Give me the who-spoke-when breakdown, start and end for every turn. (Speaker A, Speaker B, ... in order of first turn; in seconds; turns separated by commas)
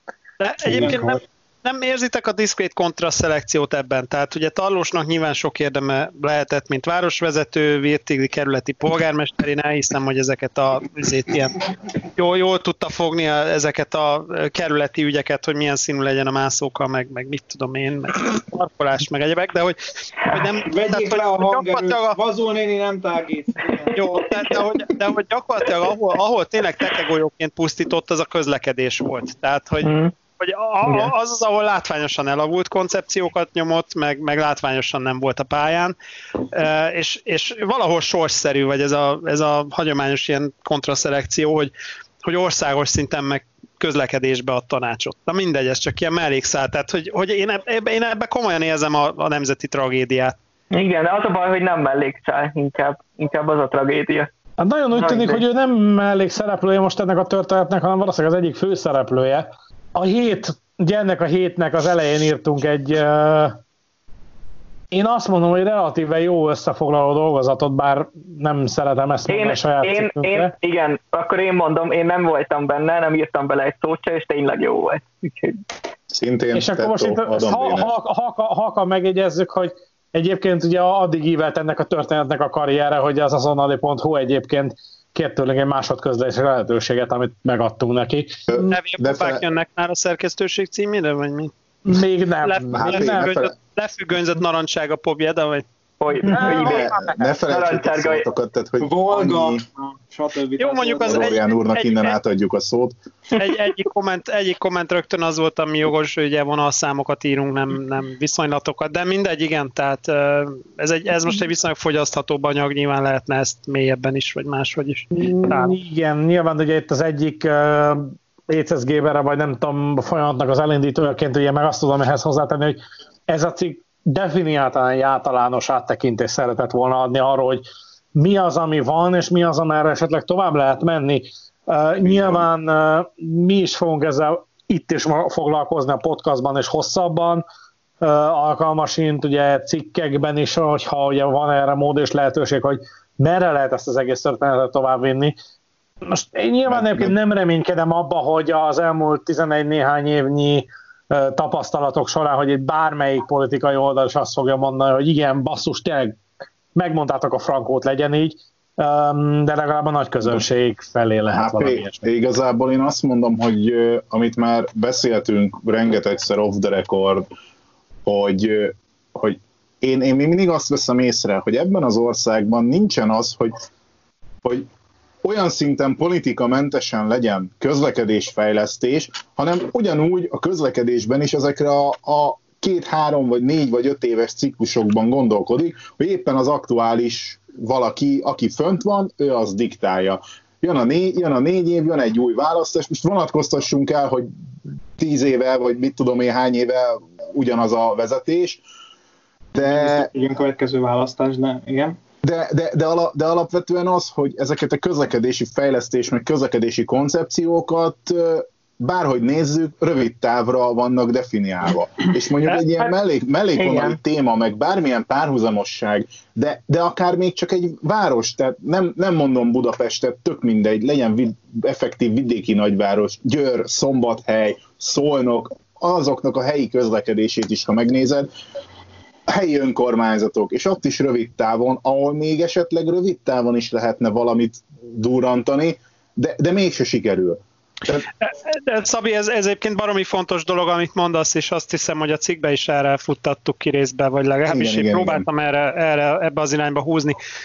Speaker A: 0.4-22.2, Speaker B: 0.6-1.0, Speaker C: 20.7-23.9, Speaker A: 23.9-35.9, Speaker D: 29.8-30.1, Speaker D: 30.8-31.1, Speaker A: 36.5-41.7, Speaker A: 42.2-50.3, Speaker D: 50.7-54.3, Speaker B: 54.6-63.6, Speaker D: 54.9-55.4, Speaker B: 64.9-70.5, Speaker D: 69.3-75.6, Speaker E: 76.1-77.9, Speaker B: 76.5-88.4, Speaker E: 88.5-89.4, Speaker A: 88.7-91.5, Speaker B: 91.8-93.3, Speaker A: 92.4-95.6, Speaker E: 92.7-93.5, Speaker D: 96.0-96.9, Speaker A: 96.2-97.2, Speaker E: 96.4-99.6, Speaker D: 97.5-98.2, Speaker C: 98.8-101.4, Speaker A: 100.6-102.1, Speaker E: 101.0-102.9, Speaker A: 103.4-115.8, Speaker B: 115.1-127.6, Speaker B: 128.2-137.4, Speaker E: 132.0-132.4, Speaker B: 138.0-145.4, Speaker B: 146.0-156.2, Speaker E: 146.7-147.2, Speaker B: 156.7-162.0, Speaker E: 161.3-167.2, Speaker E: 168.0-173.5, Speaker E: 175.2-194.3, Speaker E: 195.0-198.6, Speaker E: 199.5-200.1, Speaker C: 199.6-201.9, Speaker E: 202.2-228.3, Speaker A: 212.5-212.9, Speaker D: 213.6-214.0, Speaker E: 229.3-238.1, Speaker A: 238.2-247.2, Speaker E: 244.5-245.3